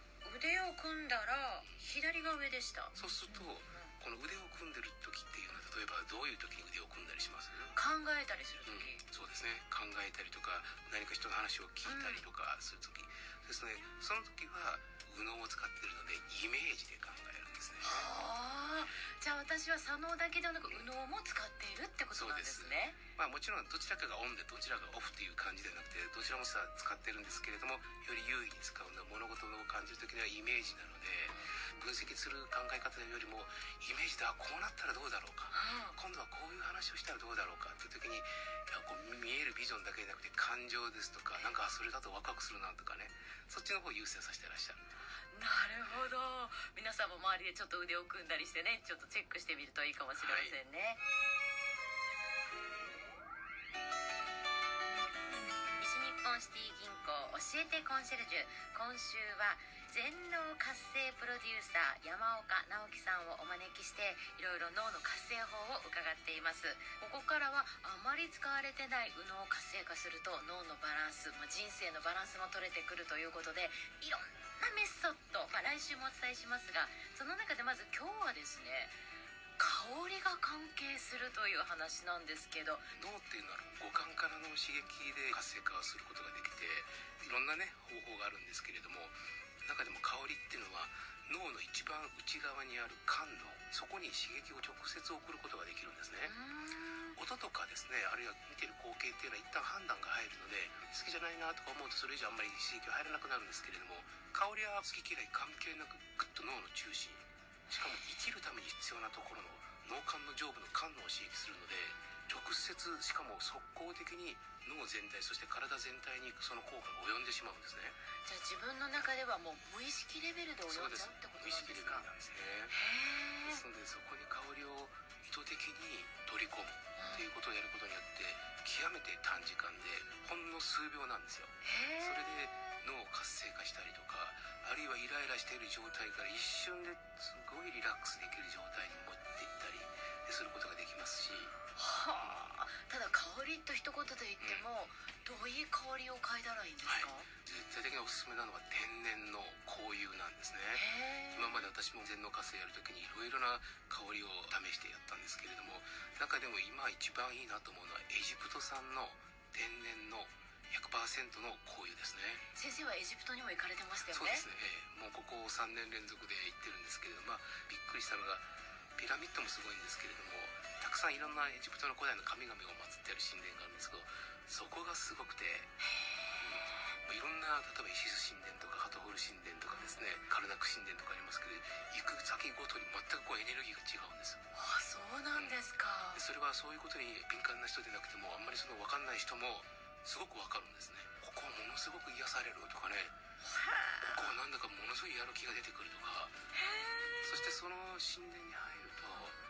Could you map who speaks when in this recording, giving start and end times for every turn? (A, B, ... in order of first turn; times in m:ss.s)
0:00.2-0:03.9 A
0:03.0-0:07.7 B
0:07.7-0:09.0 A
0:08.7-0:18.1 B
0:11.9-0:12.2 A
0:17.8-0:23.0 A
0:20.6-0:20.9 B
0:22.1-0:44.8 B
0:31.3-0:31.7 A
0:35.5-0:36.0 A
0:45.3-0:51.0 A
0:50.2-0:50.6 B
0:55.8-1:19.0 A
1:19.6-1:22.9 A
1:23.0-1:36.3 B
1:36.2-1:37.2 A
1:37.2-1:58.0 B
1:58.2-2:02.1 A
2:00.7-2:02.8 B
2:02.7-2:03.6 A
2:03.4-2:21.6 B
2:07.0-2:07.3 A
2:11.6-2:12.5 A
2:21.8-2:27.3 A
2:24.4-2:24.7 B
2:26.8-2:42.4 B
2:30.7-2:31.7 A
2:42.5-2:44.4 A
2:44.1-2:55.7 B
2:56.0-2:56.5 A
2:56.4-3:04.4 B
3:04.5-3:06.3 A
3:05.3-3:05.6 B
3:06.2-3:13.1 B
3:13.5-3:14.2 A
3:14.0-3:16.4 B
3:16.6-3:17.4 A
3:17.2-3:19.4 B